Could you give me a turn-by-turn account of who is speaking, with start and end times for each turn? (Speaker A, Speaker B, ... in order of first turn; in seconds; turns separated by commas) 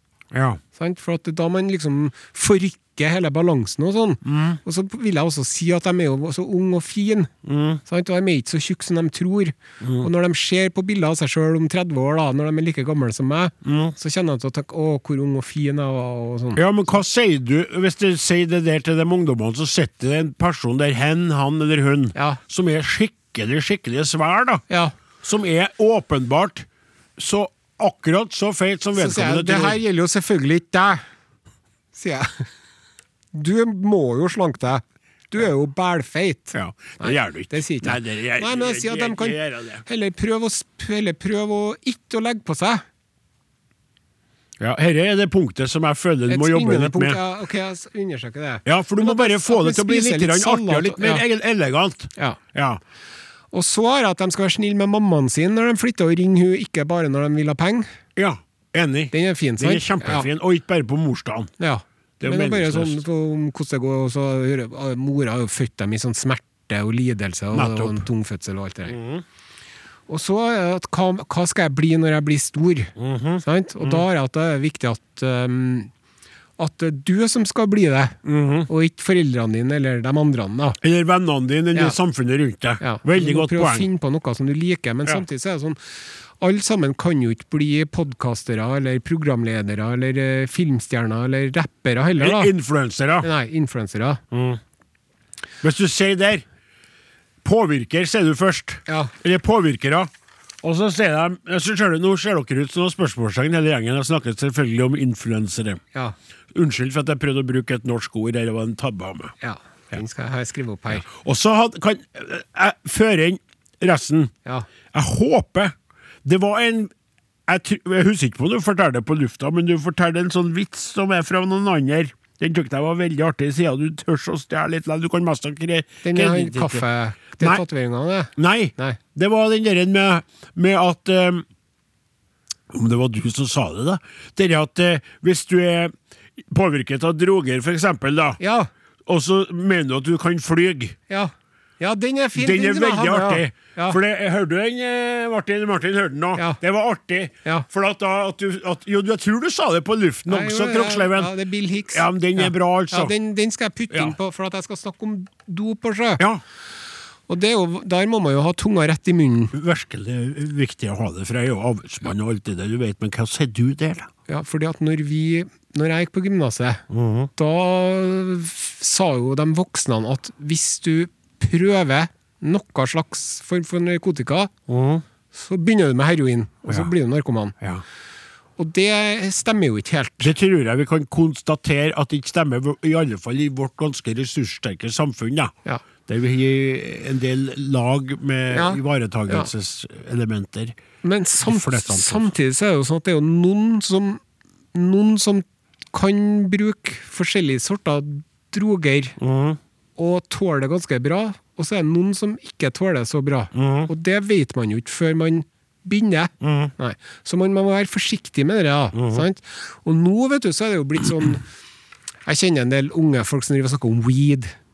Speaker A: 0.3-0.6, Speaker B: 0.8-7.3, Speaker A: 4.2-4.6, Speaker A: 7.4-7.8, Speaker B: 7.8-16.6, Speaker A: 9.8-10.1, Speaker A: 13.6-13.9, Speaker A: 16.5-24.6, Speaker B: 22.1-22.4, Speaker A: 25.2-29.8, Speaker B: 28.9-31.0, Speaker B: 31.9-32.4, Speaker B: 33.3-42.8, Speaker A: 36.5-39.8, Speaker A: 44.6-47.2, Speaker B: 46.3-51.2, Speaker A: 48.6-52.8, Speaker B: 53.5-57.9, Speaker A: 58.1-61.5, Speaker B: 59.1-60.3, Speaker B: 61.6-69.0, Speaker A: 62.2-63.0, Speaker A: 67.5-68.0, Speaker A: 68.9-69.2, Speaker B: 70.1-75.9, Speaker A: 73.0-74.0, Speaker B: 76.6-80.8, Speaker A: 78.2-78.7, Speaker A: 80.8-83.9, Speaker B: 82.8-85.8, Speaker B: 86.4-92.5, Speaker A: 92.2-93.3, Speaker B: 93.2-94.2, Speaker A: 94.3-94.6, Speaker A: 95.6-96.4, Speaker A: 97.4-100.1, Speaker B: 98.9-99.1, Speaker A: 100.6-105.8, Speaker A: 106.5-109.3, Speaker B: 109.4-111.1, Speaker A: 110.9-114.3, Speaker A: 114.9-115.7, Speaker A: 116.2-116.9, Speaker A: 117.5-126.8, Speaker B: 126.0-129.0, Speaker A: 128.3-131.4, Speaker A: 132.7-138.4, Speaker B: 138.4-138.7, Speaker A: 139.1-141.0, Speaker B: 141.1-144.0, Speaker A: 142.3-151.3, Speaker B: 150.3-156.2, Speaker A: 151.9-153.1, Speaker B: 157.3-159.5, Speaker A: 159.5-164.1, Speaker B: 164.3-166.8, Speaker A: 166.9-167.3, Speaker B: 167.3-174.5, Speaker A: 174.7-175.0, Speaker B: 175.3-177.6, Speaker B: 178.6-180.3, Speaker A: 180.2-185.5, Speaker A: 186.0-190.8, Speaker B: 188.5-189.5, Speaker B: 191.0-194.2, Speaker A: 191.4-192.3, Speaker B: 194.7-199.2, Speaker A: 199.2-199.6, Speaker B: 200.0-211.4, Speaker A: 203.5-203.9, Speaker A: 206.4-206.7, Speaker A: 208.9-209.2, Speaker B: 212.2-214.5